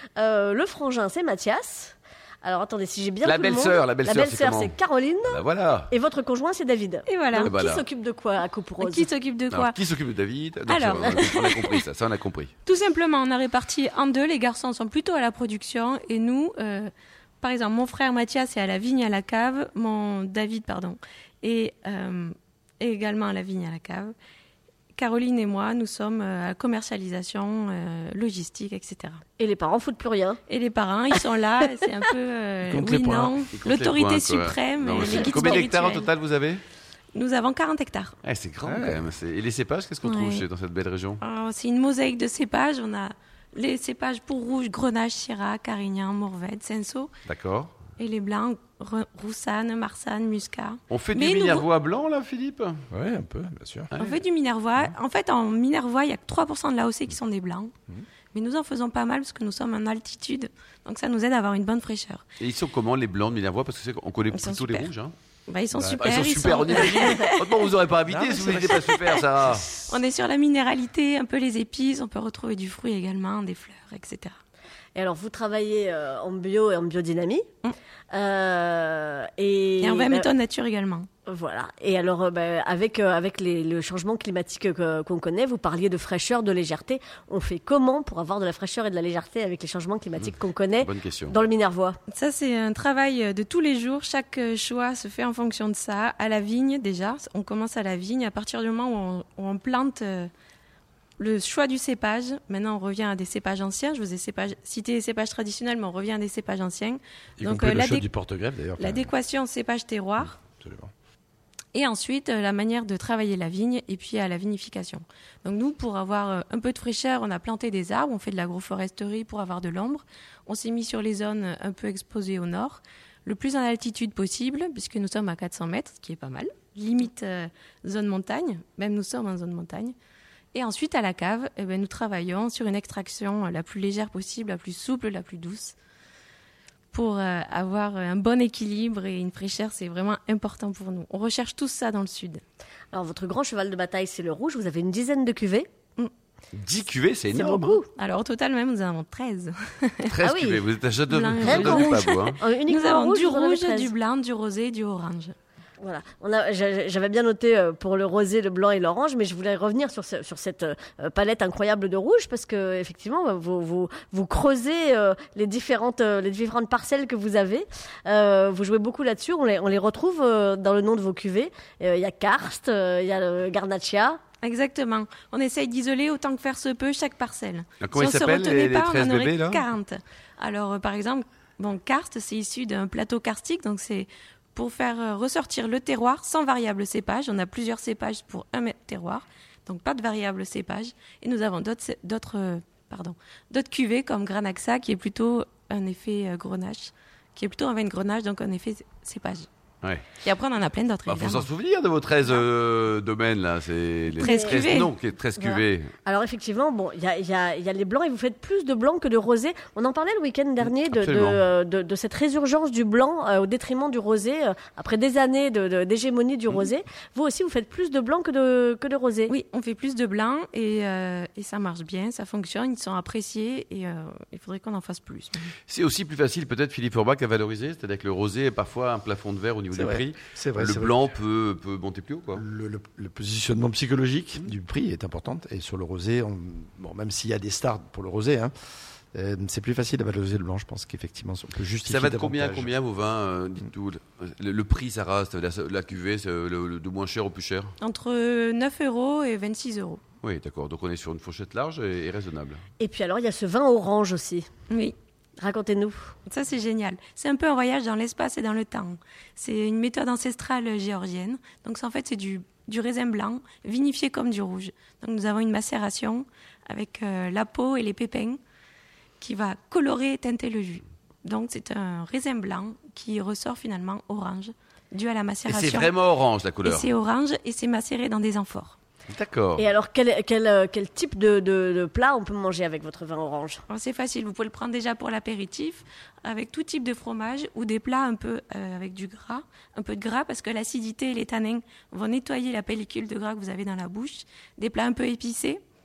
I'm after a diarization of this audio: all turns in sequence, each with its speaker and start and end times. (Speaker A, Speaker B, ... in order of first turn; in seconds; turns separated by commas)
Speaker A: 0.2-9.1, Speaker B: 3.2-5.9, Speaker C: 7.1-7.5, Speaker B: 7.4-7.8, Speaker C: 8.8-9.8, Speaker B: 9.5-12.5, Speaker C: 10.7-11.8, Speaker A: 11.0-11.3, Speaker C: 12.6-24.1, Speaker C: 24.9-29.2, Speaker A: 29.4-30.4, Speaker C: 30.5-36.1, Speaker D: 32.6-33.4, Speaker B: 33.5-36.6, Speaker A: 35.0-35.6, Speaker C: 37.1-38.1, Speaker B: 38.2-41.2, Speaker D: 38.6-39.0, Speaker C: 40.0-40.4, Speaker C: 41.2-47.1, Speaker B: 47.2-47.7, Speaker C: 48.0-51.6, Speaker B: 50.9-52.8, Speaker D: 52.9-53.9, Speaker B: 53.9-54.2, Speaker C: 54.0-57.7, Speaker C: 58.3-62.2, Speaker B: 62.4-65.1, Speaker C: 64.3-64.9, Speaker C: 65.5-67.7, Speaker D: 65.7-66.1, Speaker B: 66.0-69.7, Speaker D: 68.0-68.9, Speaker C: 68.8-69.2, Speaker C: 69.8-74.4, Speaker A: 74.9-77.5, Speaker A: 78.1-80.3, Speaker C: 79.8-81.1, Speaker A: 81.3-92.0, Speaker B: 90.2-91.4, Speaker C: 92.1-100.3, Speaker C: 101.2-108.1, Speaker D: 107.4-109.1, Speaker C: 108.8-110.3, Speaker D: 110.2-110.9, Speaker C: 111.7-129.9, Speaker C: 130.5-135.7, Speaker C: 136.9-142.4, Speaker A: 142.9-145.7, Speaker B: 146.5-147.8, Speaker A: 147.3-147.9, Speaker C: 147.9-150.2, Speaker B: 150.1-152.4, Speaker A: 150.2-150.6, Speaker C: 151.1-155.3, Speaker A: 151.4-153.9, Speaker A: 155.8-174.2, Speaker C: 174.4-199.5, Speaker B: 177.8-179.6, Speaker B: 199.8-200.1, Speaker C: 200.2-201.5, Speaker B: 201.1-205.9, Speaker C: 204.2-204.9, Speaker A: 204.2-204.8, Speaker A: 205.4-219.3, Speaker B: 210.6-211.4, Speaker C: 219.3-225.5, Speaker B: 225.7-232.4, Speaker D: 229.7-231.0, Speaker D: 232.3-238.5, Speaker D: 239.1-242.7, Speaker B: 241.8-247.7, Speaker C: 247.8-250.0, Speaker B: 250.2-252.6, Speaker A: 252.8-254.4, Speaker C: 254.7-254.9, Speaker A: 255.4-256.1, Speaker C: 256.3-268.4, Speaker C: 269.2-275.9, Speaker B: 275.5-276.9, Speaker C: 276.6-278.8, Speaker B: 279.1-279.6, Speaker A: 279.6-283.6, Speaker C: 283.7-295.6